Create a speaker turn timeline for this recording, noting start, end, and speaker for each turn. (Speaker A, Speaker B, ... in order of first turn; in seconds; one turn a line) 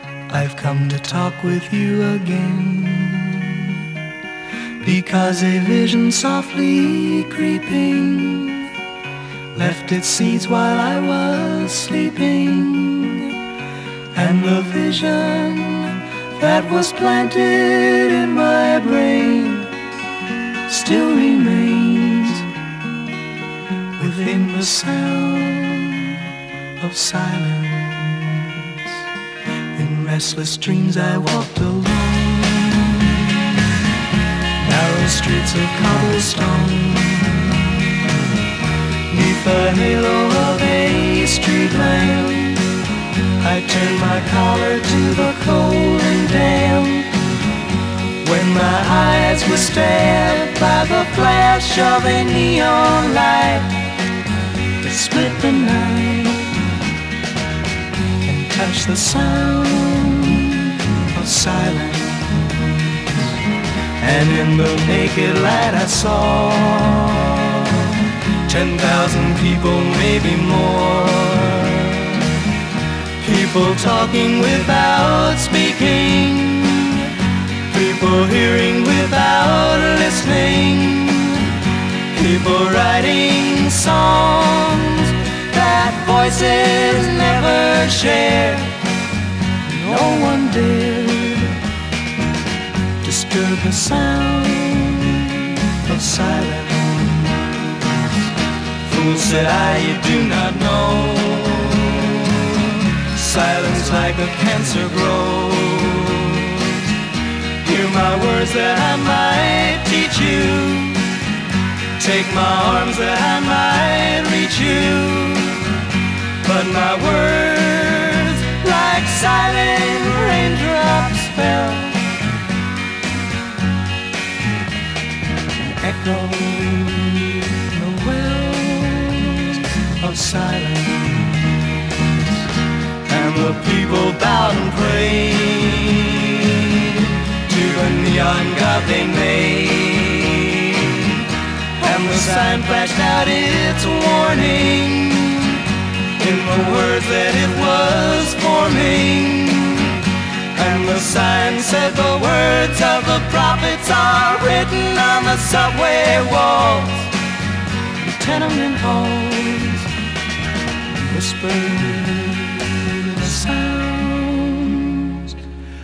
Speaker A: 0.3-4.0
Speaker A: 4.8-8.7
Speaker A: 9.5-13.4
Speaker A: 14.1-19.8
Speaker A: 20.6-22.5
Speaker A: 23.9-29.1
Speaker A: 29.7-33.6
Speaker A: 34.5-38.1
Speaker A: 39.1-42.8
Speaker A: 43.4-47.2
Speaker A: 48.2-53.9
Speaker A: 54.8-56.6
Speaker A: 58.2-63.4
Speaker A: 64.0-72.5
Speaker A: 73.2-88.8
Speaker A: 89.6-91.6
Speaker A: 93.0-97.8
Speaker A: 98.8-107.0
Speaker A: 107.6-111.2
Speaker A: 112.0-122.1
Speaker A: 125.6-131.6
Speaker A: 133.0-157.2
Speaker A: 158.0-159.9
Speaker A: 160.9-165.4